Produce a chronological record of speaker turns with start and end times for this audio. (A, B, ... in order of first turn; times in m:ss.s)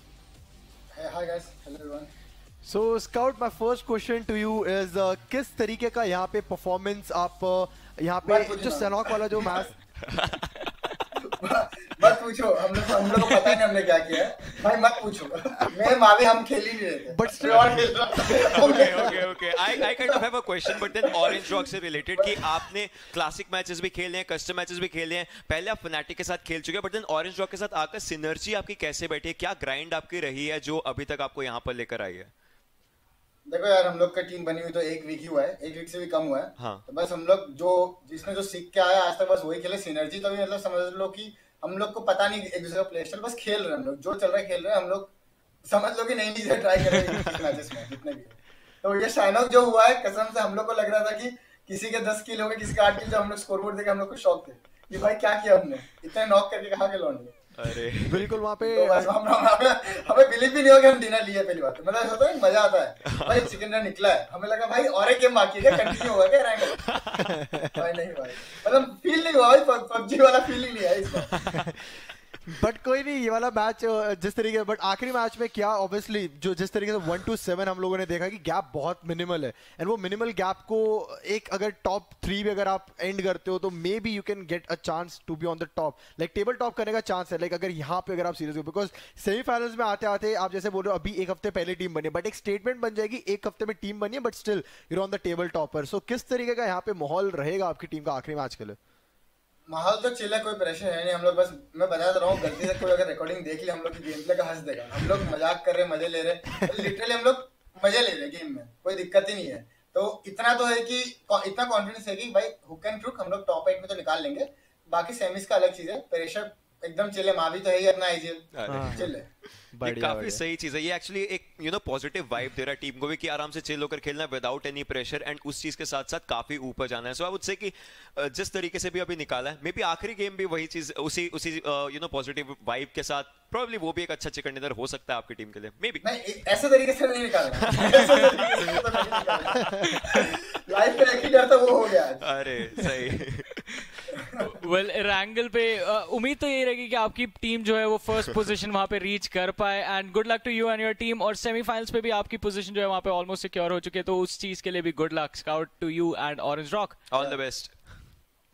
0:00.9-0:02.1 A
0:02.6-0:09.8 B
0:08.2-0:09.5 A
0:10.1-0:10.4 C
0:11.2-0:21.4 A
0:17.1-0:18.0 B
0:17.5-0:17.8 C
0:18.3-0:32.3 C
0:22.2-0:22.4 A
0:33.5-0:45.1 A
0:36.6-0:36.8 C
0:45.6-0:57.4 A
0:57.6-0:58.3 C
0:58.0-0:59.1 B
0:58.6-1:06.8 A
1:03.1-1:03.5 C
1:06.8-1:07.3 C
1:07.2-1:07.7 B
1:07.8-1:11.3 A
1:12.4-1:38.8 B
1:39.7-1:59.2 A
1:58.5-1:59.1 C
1:58.7-1:59.1 B
1:59.7-2:00.4 B
1:59.8-2:16.0 C
2:16.0-2:22.3 A
2:17.5-2:18.4 C
2:22.2-2:23.5 C
2:24.1-2:24.4 A
2:24.4-2:37.0 D
2:37.1-2:37.7 C